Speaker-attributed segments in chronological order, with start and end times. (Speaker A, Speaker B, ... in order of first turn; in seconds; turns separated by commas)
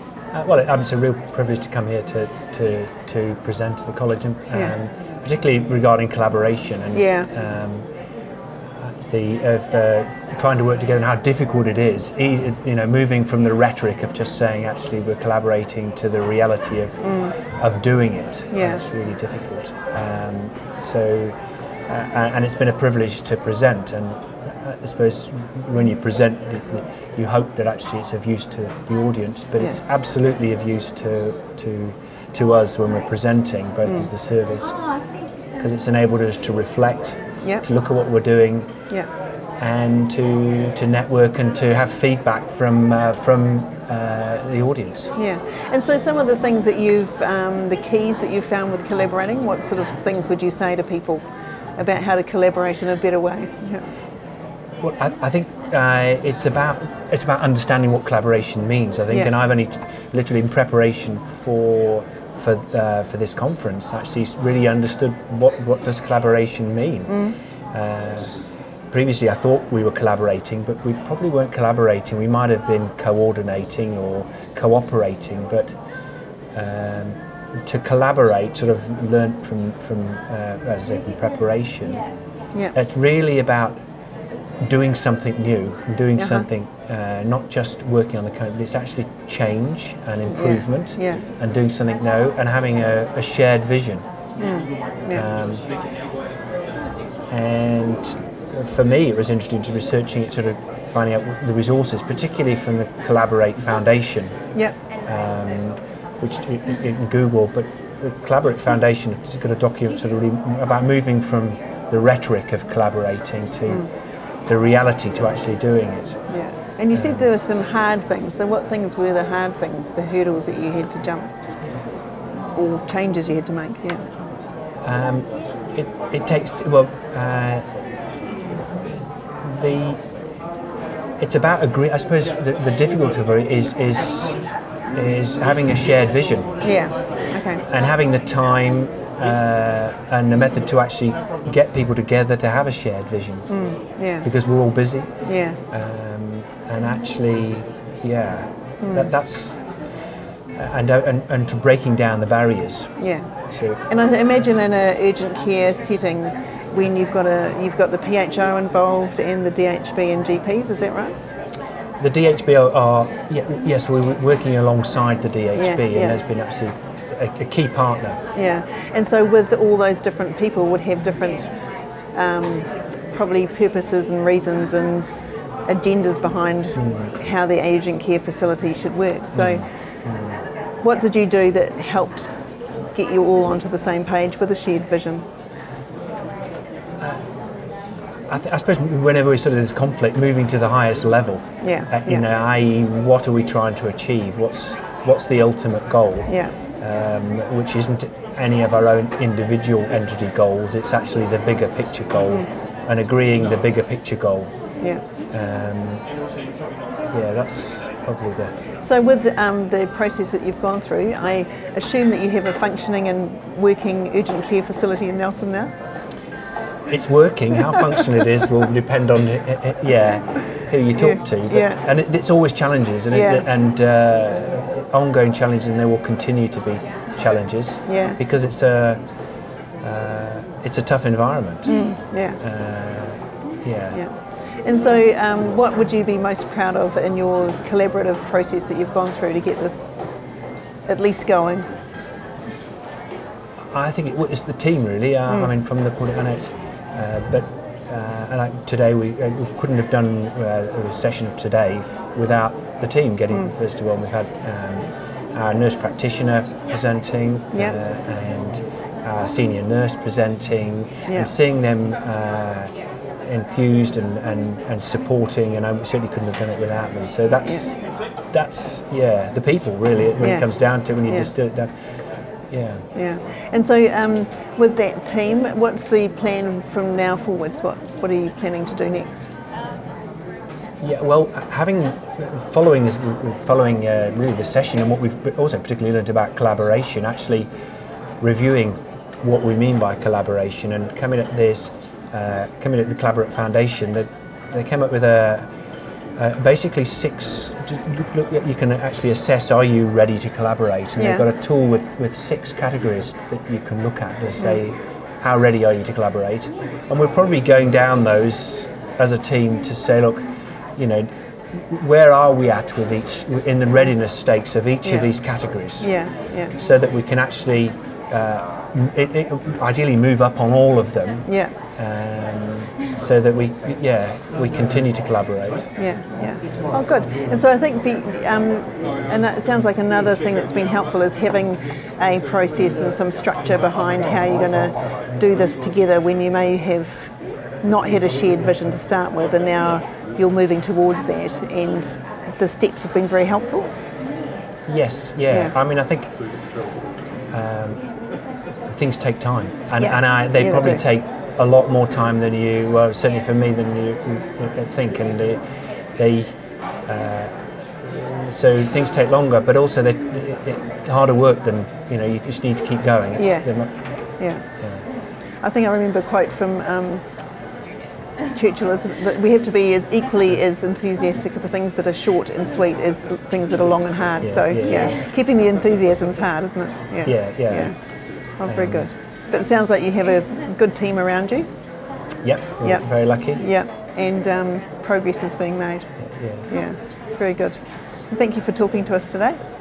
Speaker A: 0.3-7.9, Speaker B: 6.9-7.3, Speaker A: 8.8-21.4, Speaker B: 17.0-17.3, Speaker B: 18.5-18.8, Speaker A: 21.9-34.8, Speaker A: 35.6-38.7, Speaker A: 39.6-45.1, Speaker B: 45.1-51.2, Speaker B: 51.8-53.8, Speaker A: 54.8-67.2, Speaker B: 67.1-67.4, Speaker A: 67.7-68.3, Speaker A: 68.9-75.7, Speaker A: 76.5-82.0, Speaker A: 82.7-83.8, Speaker A: 84.6-94.0, Speaker B: 86.2-86.5, Speaker B: 90.3-91.2, Speaker B: 94.4-95.3, Speaker A: 95.1-95.7, Speaker A: 97.3-104.3, Speaker A: 105.0-113.9, Speaker A: 114.5-116.2, Speaker B: 116.3-121.3, Speaker A: 116.9-117.3, Speaker B: 122.5-124.0, Speaker A: 124.8-127.7, Speaker A: 129.4-130.0, Speaker A: 131.2-134.4, Speaker A: 134.9-136.6, Speaker B: 136.6-137.6, Speaker A: 137.7-143.6, Speaker B: 143.5-144.3, Speaker A: 144.2-145.1, Speaker B: 145.2-145.6, Speaker A: 145.7-149.6, Speaker B: 148.8-149.1, Speaker A: 150.5-153.0, Speaker B: 153.0-153.3, Speaker A: 153.5-153.8, Speaker B: 153.9-161.1, Speaker A: 162.0-168.2, Speaker B: 165.5-166.2, Speaker B: 168.3-171.5, Speaker B: 172.1-175.1, Speaker B: 175.7-179.7, Speaker A: 176.8-177.1, Speaker A: 179.3-180.4, Speaker B: 180.8-182.3, Speaker B: 182.9-185.2, Speaker A: 188.3-204.5, Speaker B: 191.6-192.2, Speaker B: 196.3-196.6, Speaker A: 205.3-206.0, Speaker A: 207.1-208.6, Speaker B: 208.8-215.7, Speaker A: 216.9-229.0, Speaker B: 220.9-221.8, Speaker B: 223.1-223.4, Speaker B: 227.9-228.2, Speaker A: 229.8-231.8, Speaker B: 231.6-232.4, Speaker A: 232.4-234.0, Speaker B: 233.9-239.9, Speaker B: 240.9-241.7, Speaker A: 243.7-271.7, Speaker B: 261.1-261.3, Speaker B: 267.4-267.7, Speaker B: 270.2-270.5, Speaker A: 272.5-272.9, Speaker B: 272.9-279.3, Speaker A: 280.8-287.5, Speaker A: 288.2-295.4, Speaker A: 296.1-316.0, Speaker B: 301.0-301.2, Speaker B: 314.8-315.1, Speaker B: 315.8-316.5, Speaker A: 316.5-325.7, Speaker B: 321.2-321.5, Speaker B: 325.8-343.7, Speaker A: 344.6-346.2, Speaker B: 345.3-345.6, Speaker A: 347.3-347.8, Speaker A: 348.6-355.4, Speaker B: 349.8-350.8, Speaker A: 356.0-356.3, Speaker A: 356.9-363.7, Speaker B: 363.2-363.5, Speaker B: 364.2-364.5, Speaker A: 364.6-364.8, Speaker B: 365.4-367.0, Speaker B: 368.3-381.5, Speaker A: 374.2-374.7, Speaker A: 377.1-377.8, Speaker A: 378.4-378.9, Speaker A: 382.2-383.4, Speaker B: 382.6-389.4, Speaker A: 386.0-386.5